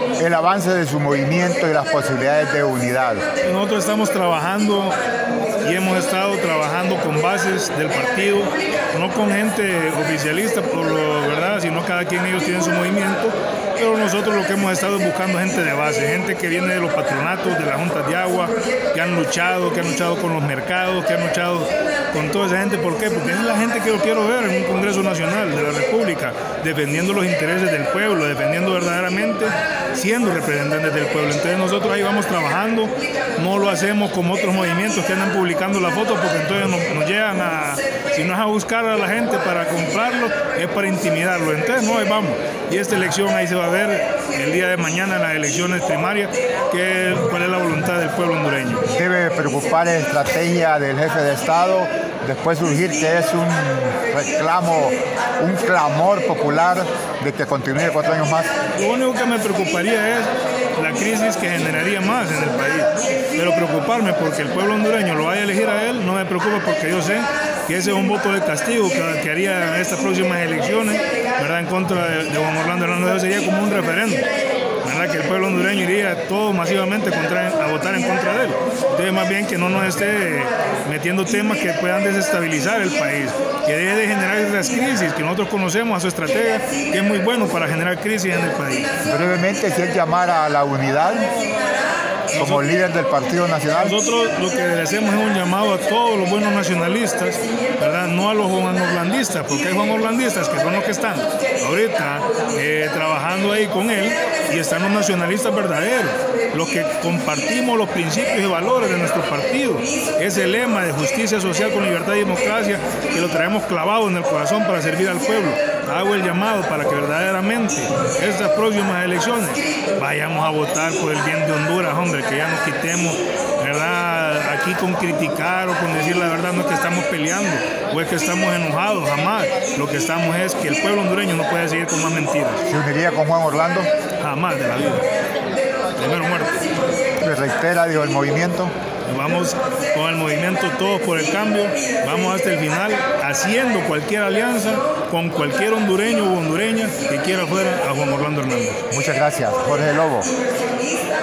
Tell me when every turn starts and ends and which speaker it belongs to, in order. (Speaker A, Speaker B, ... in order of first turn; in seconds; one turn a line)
Speaker A: 0.2-3.2
Speaker B: 3.4-5.0
Speaker B: 5.6-48.8
Speaker A: 48.9-58.5
Speaker B: 58.8-74.2
Speaker B: 74.8-88.9
Speaker A: 89.0-91.3
Speaker B: 92.3-92.7
Speaker A: 92.3-94.0
Speaker B: 93.8-132.6
Speaker A: 132.7-133.9
Speaker B: 134.2-135.0
Speaker B: 136.0-136.6
Speaker A: 137.2-138.7
Speaker B: 139.1-148.8
Speaker A: 148.9-150.3